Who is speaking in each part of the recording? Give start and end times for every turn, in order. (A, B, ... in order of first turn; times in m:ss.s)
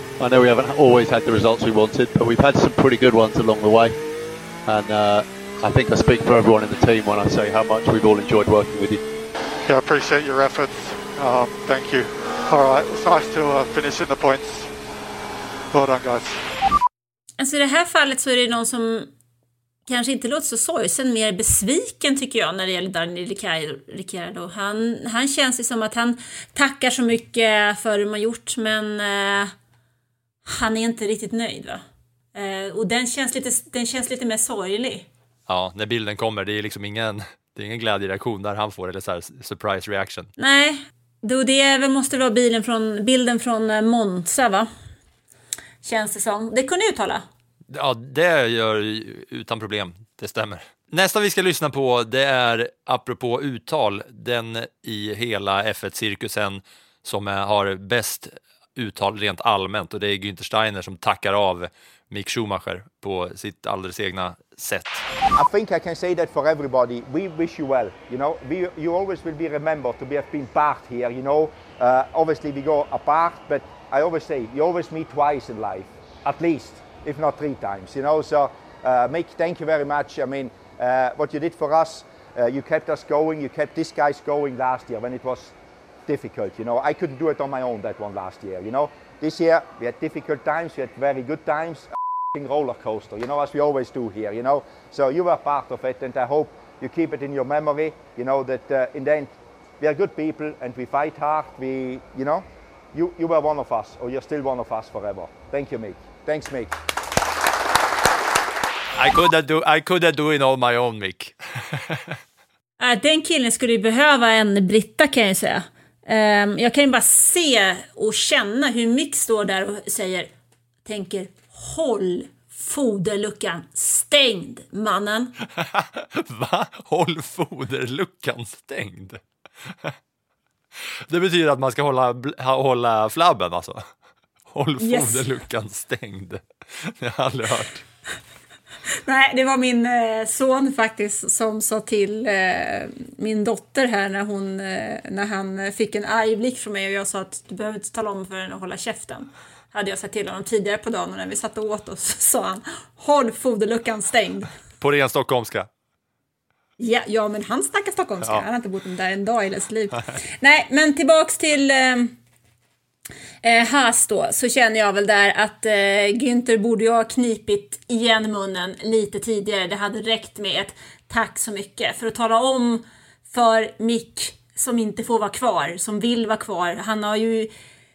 0:00.2-0:04.0 A
0:04.6-0:09.0 A
0:09.6-0:14.7 B
0:15.7-0:16.4 B
0:17.4-0:19.1 C
0:19.9-0:29.5 C
0:30.4-0:31.8 C
0:32.3-0:35.1 C
0:35.5-0:40.3 D
0:40.4-0:44.7 C
0:45.8-0:47.2 C
0:47.7-1:05.0 D
1:05.3-1:46.8 E
1:49.0-1:52.0 D
1:52.8-2:00.3 C
2:00.8-2:05.3 C
2:05.6-2:09.2 D
2:11.1-2:13.8 D
2:14.5-2:17.8 D
2:14.8-2:15.2 C
2:19.0-2:34.5 C
2:34.8-2:35.7 D
2:36.8-2:42.1 C
2:43.4-2:57.5 C